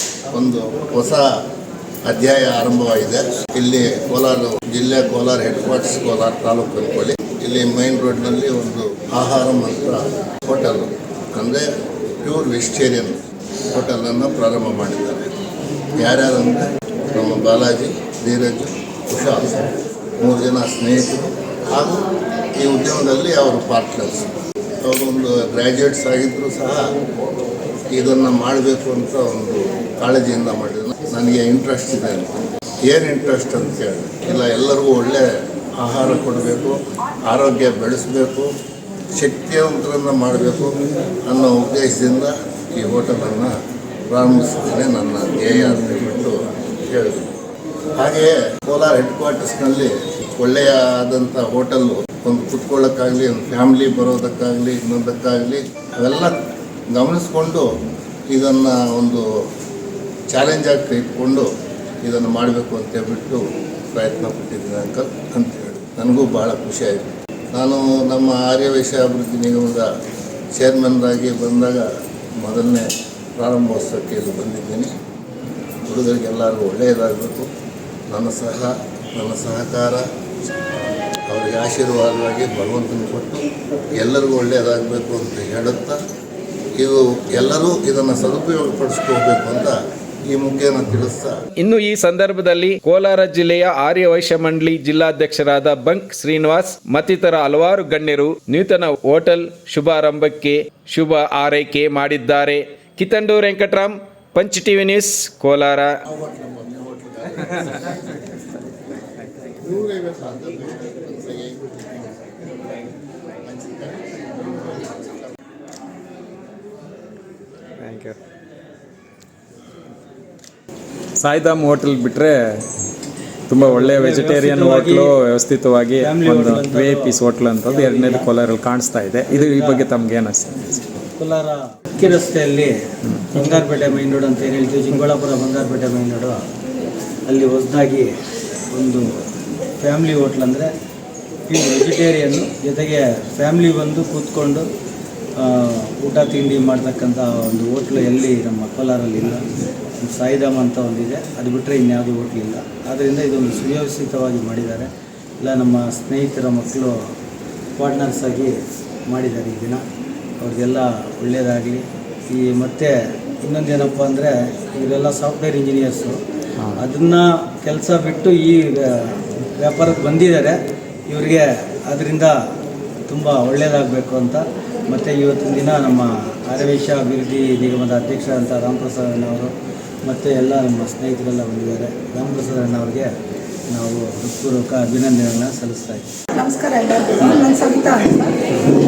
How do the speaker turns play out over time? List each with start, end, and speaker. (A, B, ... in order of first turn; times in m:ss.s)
0:00.3-0:01.3 A
0:02.0-0:11.7 A
0:12.2-0:13.2 A
0:13.7-0:15.3 A
0:16.0-0:19.7 A
0:20.2-0:22.0 A
0:22.6-0:24.3 A
0:24.8-0:26.8 A
0:27.9-0:32.4 A
0:32.9-0:35.2 A
0:35.8-0:36.8 A
0:37.3-0:38.5 A
0:39.2-0:43.5 A
0:44.1-0:47.3 A
0:48.0-0:56.4 A
0:56.9-0:57.7 A
0:58.3-0:59.2 A
1:00.3-1:01.5 A
1:02.0-1:09.9 A
1:10.6-1:11.9 A
1:12.4-1:14.9 A
1:15.9-1:17.5 A
1:18.1-1:20.0 A
1:21.3-1:23.5 A
1:24.0-1:26.0 A
1:26.8-1:29.8 A
1:30.3-1:31.4 A
1:31.6-1:46.0 B
1:46.1-1:48.4 A
1:49.0-1:52.4 A
1:53.4-1:55.3 A
1:57.8-1:58.2 C
2:01.2-2:02.4 C
2:03.5-2:10.8 C
2:03.6-2:05.2 D
2:06.0-2:08.3 D
2:09.3-2:09.9 D
2:11.1-2:12.7 D
2:13.1-2:13.6 C
2:13.3-2:16.4 D
2:17.3-2:18.2 D
2:18.7-2:19.0 D
2:19.8-2:20.7 D
2:21.5-2:24.7 D
2:25.4-2:29.5 D
2:30.0-2:34.9 D
2:35.4-2:37.0 D
2:37.8-2:38.6 D
2:39.1-2:39.8 D
2:40.4-2:46.2 D
2:46.8-2:52.4 D
2:53.1-2:59.5 D
3:00.1-3:03.1 D
3:03.7-3:06.0 D
3:06.4-3:08.4 E